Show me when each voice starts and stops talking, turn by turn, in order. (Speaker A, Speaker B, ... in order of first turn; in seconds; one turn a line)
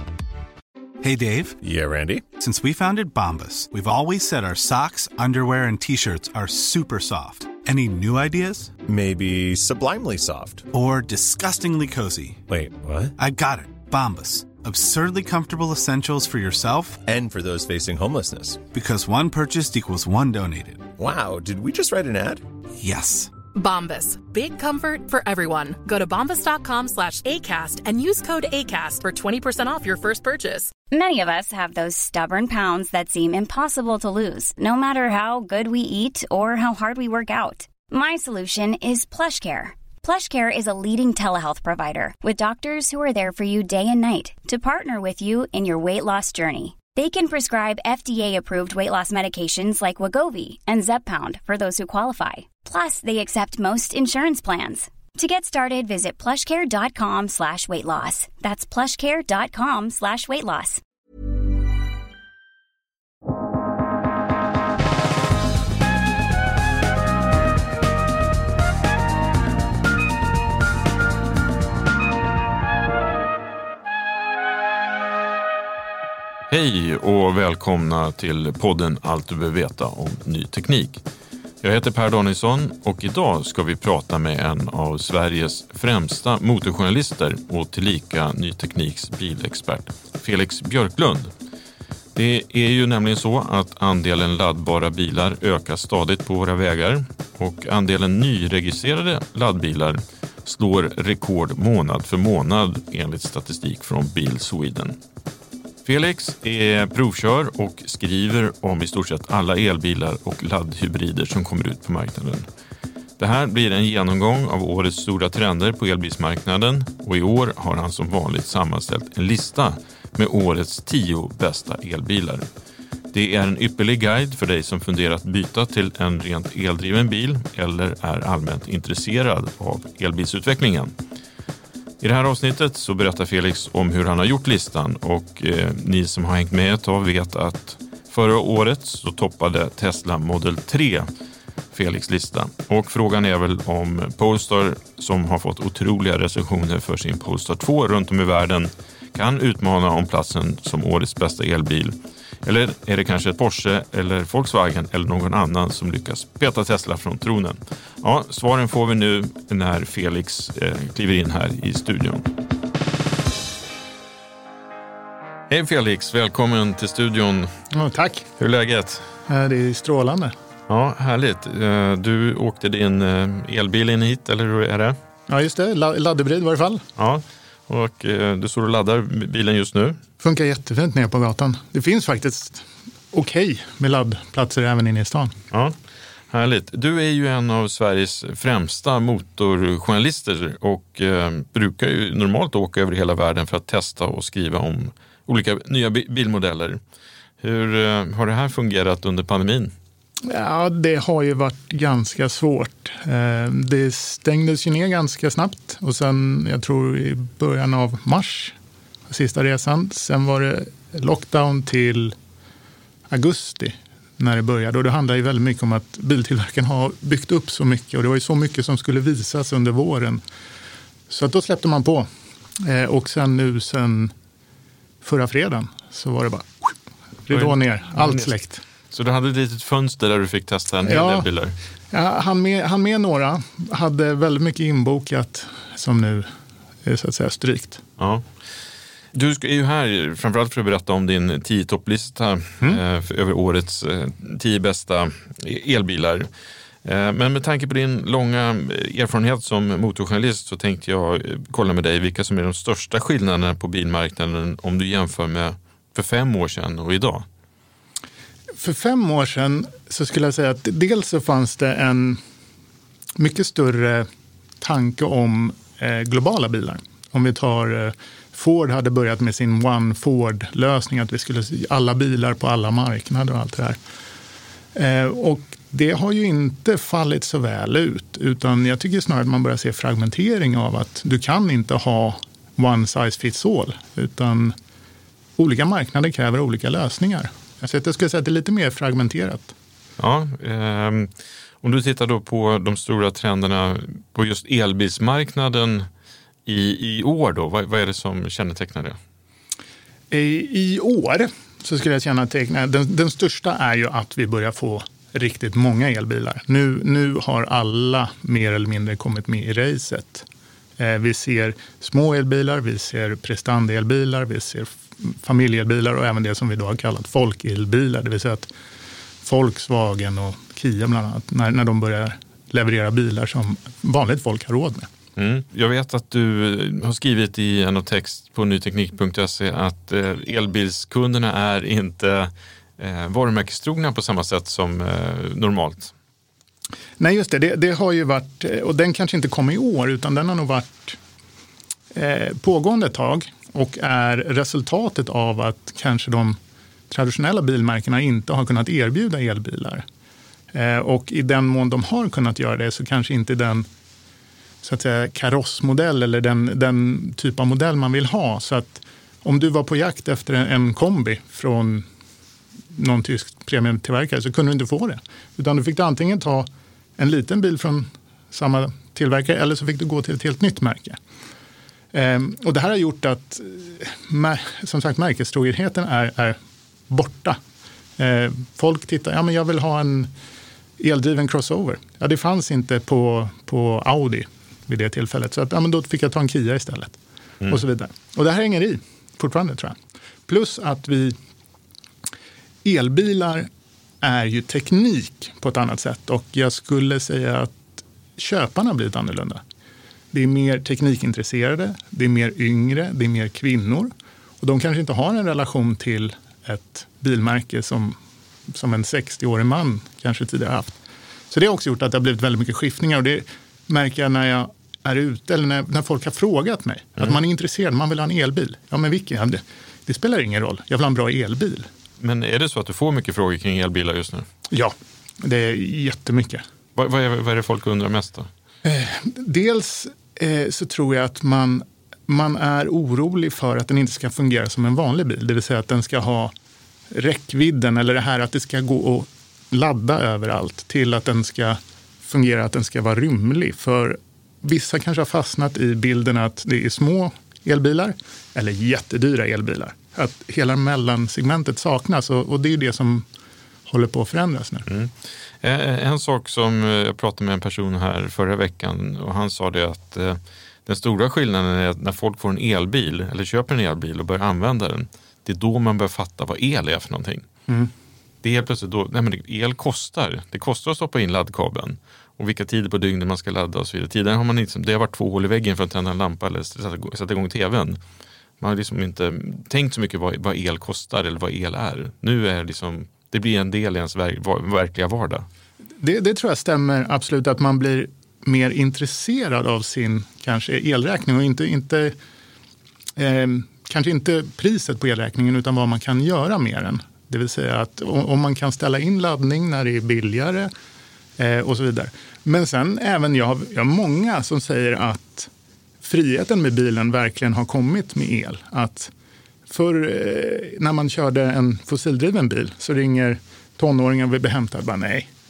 Speaker A: 1.0-1.6
Speaker B: 1.6-2.2
Speaker A: 2.4-8.8
Speaker B: 8.9-10.7
Speaker A: 10.7-12.4
Speaker B: 12.5-13.1
Speaker A: 13.2-17.0
Speaker B: 17.0-18.6
Speaker A: 18.7-20.9
Speaker B: 21.0-22.4
Speaker A: 22.8-23.3
Speaker C: 23.5-30.7
Speaker D: 30.9-60.8
Speaker E: 76.5-81.0
Speaker E: 81.6-91.3
Speaker E: 92.2-105.0
Speaker E: 105.8-112.5
Speaker E: 113.2-122.5
Speaker E: 123.1-130.9
Speaker E: 132.0-141.1
Speaker E: 141.7-162.3
Speaker E: 165.5-167.5
Speaker F: 167.7-168.3
Speaker E: 168.4-169.1
Speaker F: 169.3-170.3
Speaker E: 170.7-175.0
Speaker F: 175.3-176.8
Speaker E: 177.0-180.0
Speaker F: 180.2-185.3
Speaker E: 185.5-185.8
Speaker E: 186.3-196.8
Speaker E: 197.4-199.7
Speaker F: 200.2-208.6
Speaker F: 209.1-212.2
Speaker F: 213.1-220.2
Speaker F: 221.1-222.1
Speaker F: 222.6-224.1
Speaker F: 225.0-226.7
Speaker F: 227.3-228.6
Speaker E: 227.3-228.3
Speaker E: 228.9-231.6
Speaker F: 230.9-231.3
Speaker F: 231.9-236.3
Speaker F: 236.8-237.8
Speaker E: 238.0-238.2
Speaker E: 239.1-246.3
Speaker E: 246.8-257.3
Speaker F: 258.6-262.2
Speaker F: 263.2-264.1
Speaker F: 264.6-273.8
Speaker F: 274.8-284.6
Speaker F: 285.4-289.5
Speaker E: 290.0-291.1
Speaker E: 291.6-295.9
Speaker E: 296.5-299.0
Speaker F: 300.1-310.3
Speaker F: 310.8-318.5
Speaker F: 319.2-324.9
Speaker E: 325.2-335.9
Speaker F: 337.0-341.0
Speaker F: 341.9-346.4
Speaker F: 346.9-349.8
Speaker F: 350.5-353.7
Speaker F: 354.6-361.9
Speaker F: 362.7-371.0
Speaker F: 371.9-376.4
Speaker F: 376.9-377.4
Speaker F: 378.0-380.1
Speaker F: 380.8-391.2
Speaker F: 392.6-393.5
Speaker F: 394.0-399.4
Speaker F: 400.1-408.0
Speaker F: 408.5-410.8
Speaker F: 411.3-421.7
Speaker E: 422.0-424.3
Speaker F: 424.5-426.4
Speaker E: 426.8-428.3
Speaker F: 428.6-436.3
Speaker F: 436.9-453.1
Speaker F: 453.7-454.7
Speaker E: 455.4-467.3
Speaker E: 468.2-477.8
Speaker E: 478.4-485.3
Speaker F: 485.8-492.0
Speaker F: 493.0-500.5
Speaker F: 501.2-505.3
Speaker F: 505.8-508.9
Speaker F: 509.5-515.1